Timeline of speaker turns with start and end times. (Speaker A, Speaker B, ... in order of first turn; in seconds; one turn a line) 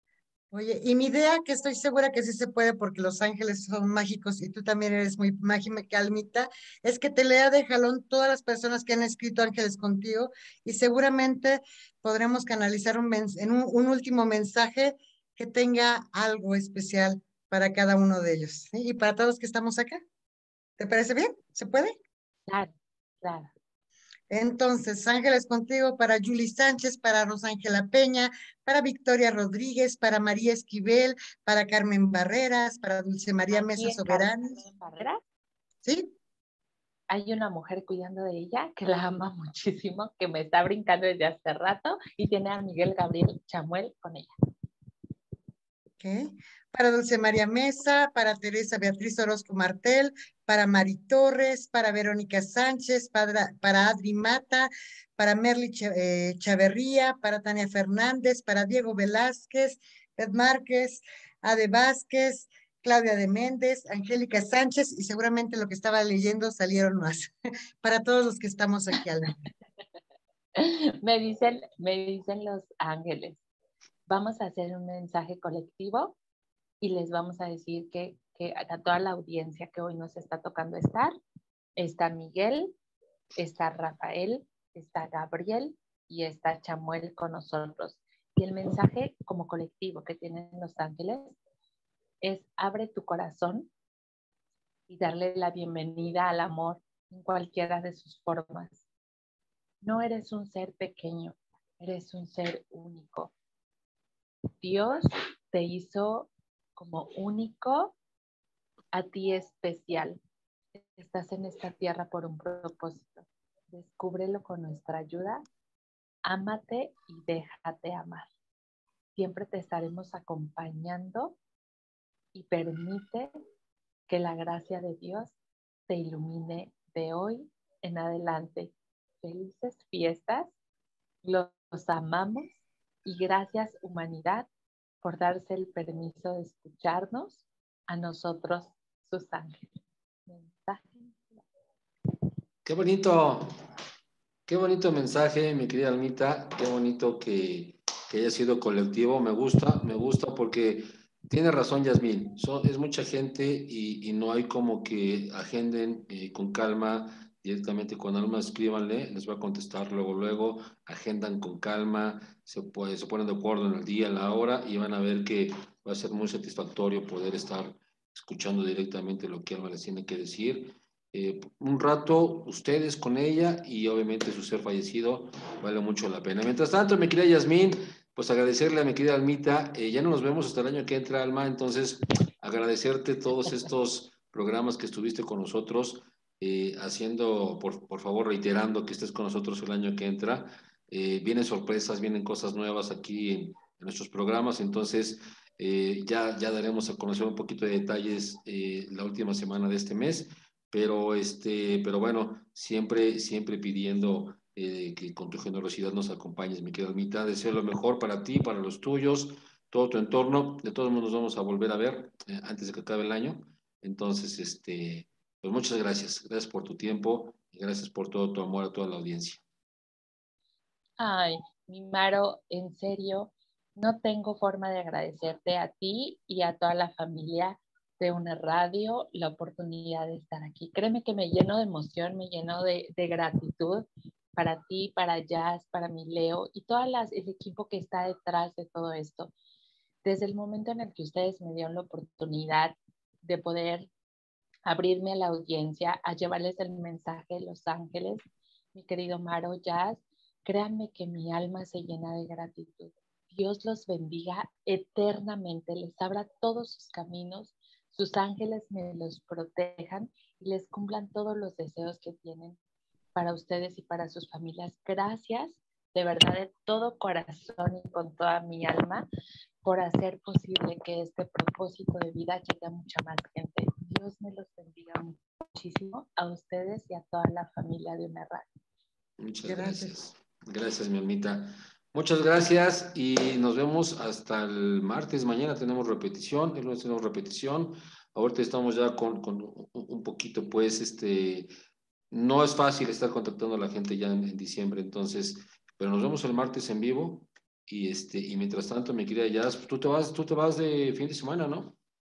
Speaker A: 0.5-20.0
Speaker A: 20.8-21.9
Speaker B: 22.5-23.5
Speaker A: 24.3-34.6
Speaker B: 33.5-35.2
Speaker A: 35.8-36.1
Speaker B: 37.1-44.3
Speaker A: 46.0-69.4
Speaker B: 70.6-73.4
Speaker B: 74.1-76.2
Speaker B: 76.8-81.1
Speaker B: 81.8-82.7
Speaker B: 83.4-91.4
Speaker B: 92.2-93.7
Speaker B: 94.9-98.8
Speaker B: 99.8-103.3
Speaker B: 104.6-108.0
Speaker B: 108.9-110.2
Speaker B: 110.8-115.4
Speaker B: 116.3-118.3
Speaker B: 119.2-121.4
Speaker B: 122.3-123.3
Speaker B: 124.1-125.3
Speaker B: 125.9-130.5
Speaker B: 131.2-134.5
Speaker B: 135.0-139.7
Speaker B: 140.3-141.4
Speaker C: 142.7-143.5
Speaker C: 144.5-219.4
Speaker B: 221.0-239.3
Speaker B: 240.0-243.9
Speaker B: 244.7-262.6
Speaker B: 263.1-269.1
Speaker B: 269.6-278.4
Speaker C: 279.2-291.5
Speaker A: 279.4-279.9
Speaker C: 292.1-301.8